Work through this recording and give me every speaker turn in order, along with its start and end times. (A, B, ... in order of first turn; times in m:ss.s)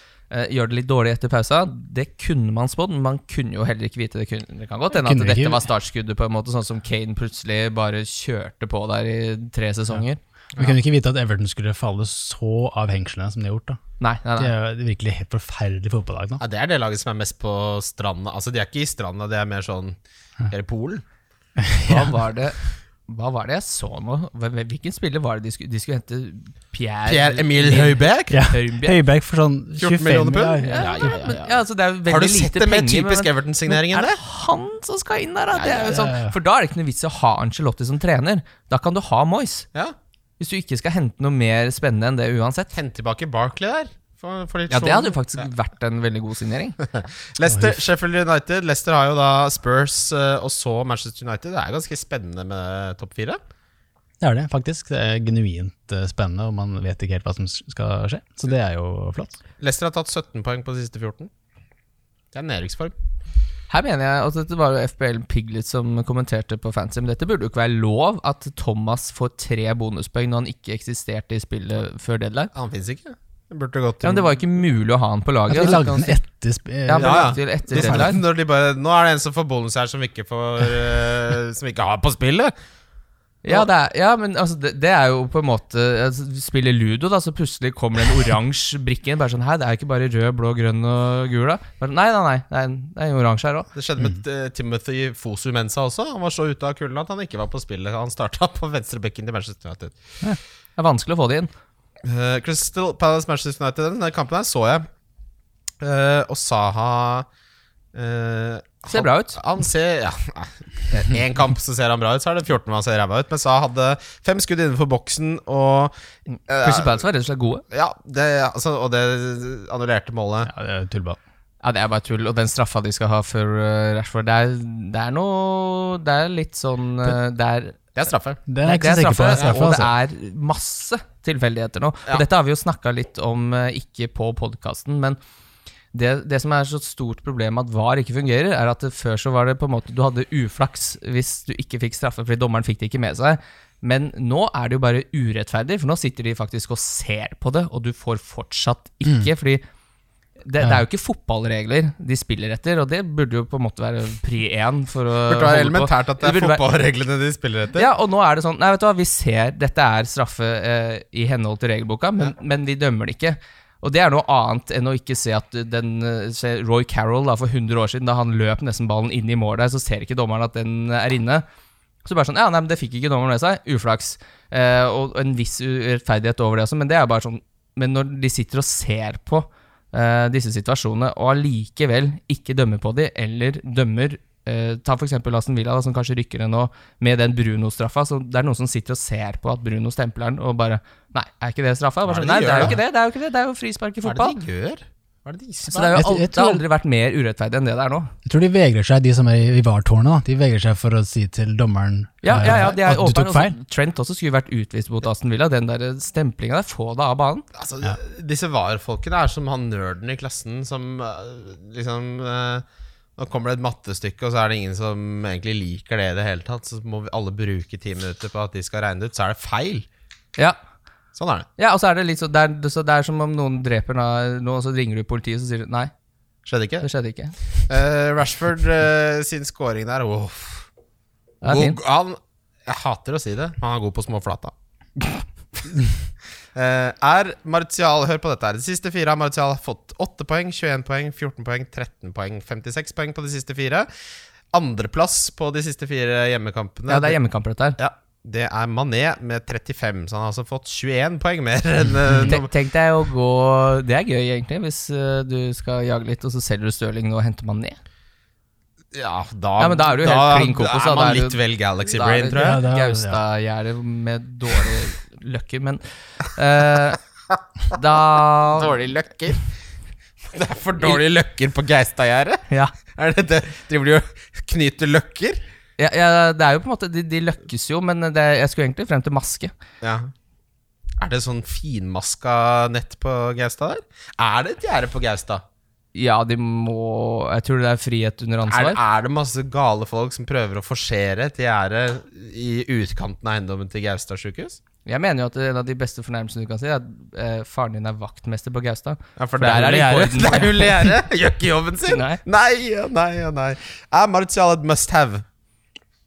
0:00.3-0:10.2 A
0:04.9-0:05.7 B
0:10.6-0:13.8 B
0:14.0-0:14.5 A
0:14.4-0:16.4 B
0:16.4-0:20.0 C
0:20.5-0:21.0 C
0:21.6-0:22.2 B
0:21.9-0:29.0 A
0:27.1-0:28.4 C
0:28.3-0:31.3 B
0:29.8-0:34.2 C
0:30.6-0:39.7 A
0:35.5-0:36.0 C
0:35.9-0:36.3 B
0:40.4-0:42.7 A
0:42.7-0:45.4 C
0:44.7-0:46.8 A
0:46.8-0:53.4 C
0:47.5-0:47.8 B
0:54.2-0:59.4 B
0:59.6-1:01.3 C
1:02.3-1:02.9 C
1:03.7-1:12.5 A
1:12.5-1:14.3 C
1:14.0-1:16.2 A
1:15.5-1:18.2 B
1:16.9-1:18.2 A
1:17.0-1:22.5 C
1:23.4-1:33.7 A
1:33.8-1:40.0 C
1:40.8-1:41.5 A
1:42.0-1:44.9 C
1:45.8-1:47.3 C
1:47.9-1:55.9 C
1:48.9-1:49.4 A
1:56.5-1:57.0 C
1:56.6-1:57.6 A
1:57.7-2:00.5 C
2:00.5-2:01.2 B
2:01.6-2:08.0 A
2:08.0-2:08.4 C
2:08.5-2:09.9 B
2:08.6-2:15.2 A
2:15.9-2:29.6 A
2:30.4-2:36.6 A
2:35.3-2:37.9 C
2:37.8-2:51.4 A
2:52.0-3:14.4 A
3:12.1-3:12.8 C
3:14.0-3:16.0 C
3:15.7-3:18.1 A
3:15.9-3:16.6 B
3:18.3-3:23.6 B
3:22.2-3:27.4 A
3:27.6-3:32.6 C
3:33.2-3:39.9 C
3:41.2-3:41.5 C
3:41.6-3:45.9 A
3:46.5-3:46.9 C
3:46.8-3:47.4 A
3:47.7-3:50.7 C
3:51.4-3:51.8 A
3:51.4-3:54.5 C
3:56.6-4:03.9 C
4:04.5-4:07.2 C
4:06.9-4:07.8 A
4:07.8-4:12.5 C
4:12.3-4:17.8 A
4:18.9-4:22.6 C
4:19.6-4:27.0 A
4:22.4-4:23.2 B
4:27.7-4:28.8 A
4:28.5-4:29.4 C
4:30.3-4:35.4 C
4:32.5-4:32.8 A
4:35.8-4:39.5 A
4:39.8-4:40.1 C
4:41.0-4:45.4 C
4:46.0-4:48.8 A
4:48.5-4:54.6 C
4:54.8-5:00.9 A
4:59.2-5:05.2 C
5:01.9-5:02.2 A